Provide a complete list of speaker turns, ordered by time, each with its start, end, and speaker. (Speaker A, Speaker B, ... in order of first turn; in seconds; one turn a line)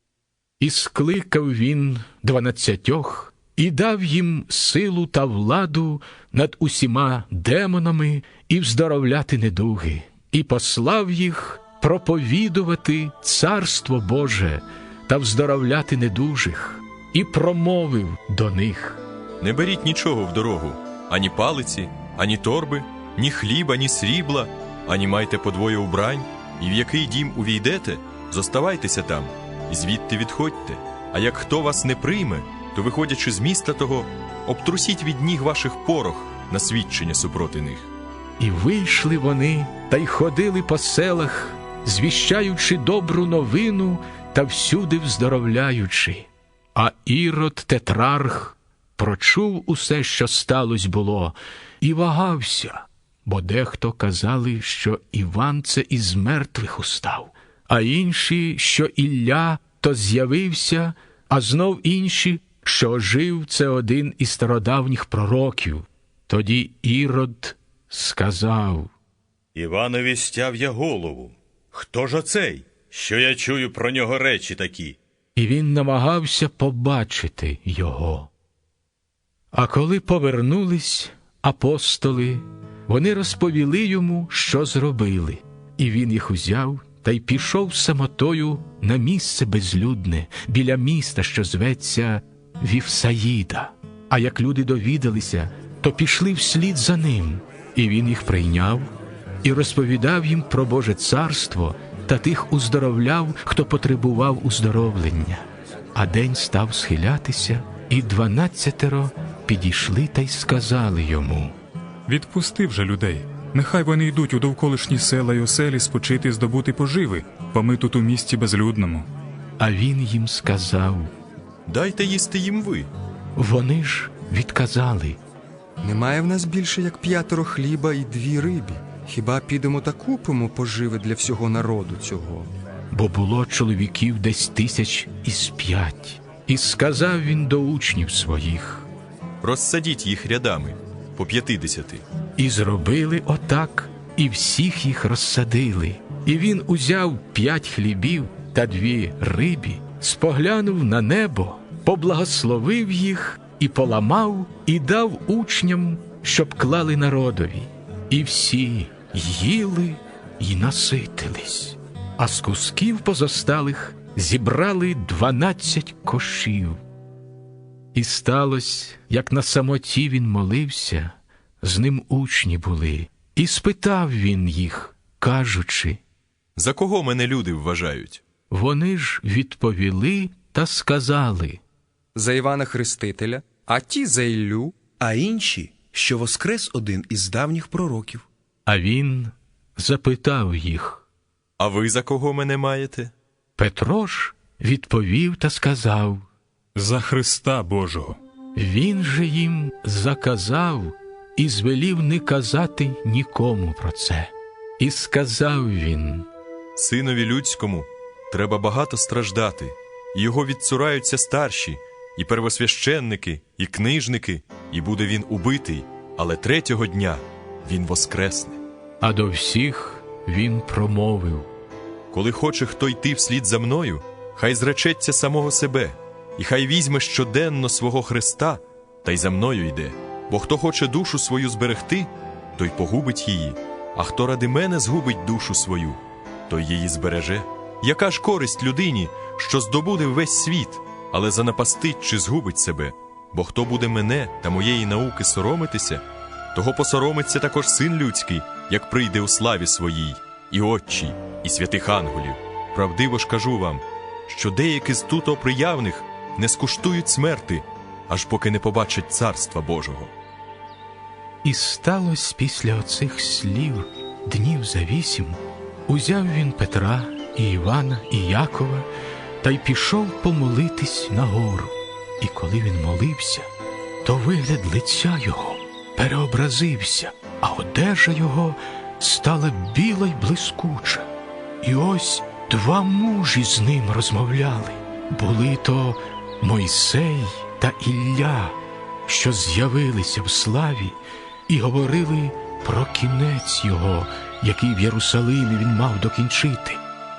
Speaker A: 0.6-19.0
Speaker B: 19.4-37.9
Speaker A: 38.4-68.9
Speaker C: 69.5-75.0
Speaker A: 75.4-78.3
Speaker A: 79.5-98.9
Speaker A: 99.4-105.4
Speaker A: 106.0-111.5
Speaker D: 112.1-119.1
Speaker A: 119.6-121.1
Speaker B: 121.7-122.9
Speaker A: 123.4-125.2
Speaker E: 125.8-132.5
Speaker A: 132.9-138.9
Speaker B: 139.4-142.0
Speaker A: 142.4-166.8
Speaker A: 167.9-176.0
Speaker B: 176.6-178.2
Speaker A: 178.5-181.6
Speaker E: 182.2-184.8
Speaker F: 185.0-188.3
Speaker A: 188.7-191.1
Speaker B: 191.6-193.1
Speaker A: 193.6-196.3
Speaker D: 196.8-198.2
Speaker A: 198.6-206.3
Speaker B: 206.8-218.6
Speaker A: 219.0-221.5
Speaker B: 222.1-246.0
Speaker B: 246.6-260.1
Speaker A: 261.4-268.9
Speaker A: 269.4-273.5
Speaker A: 274.0-281.1
Speaker A: 281.6-296.8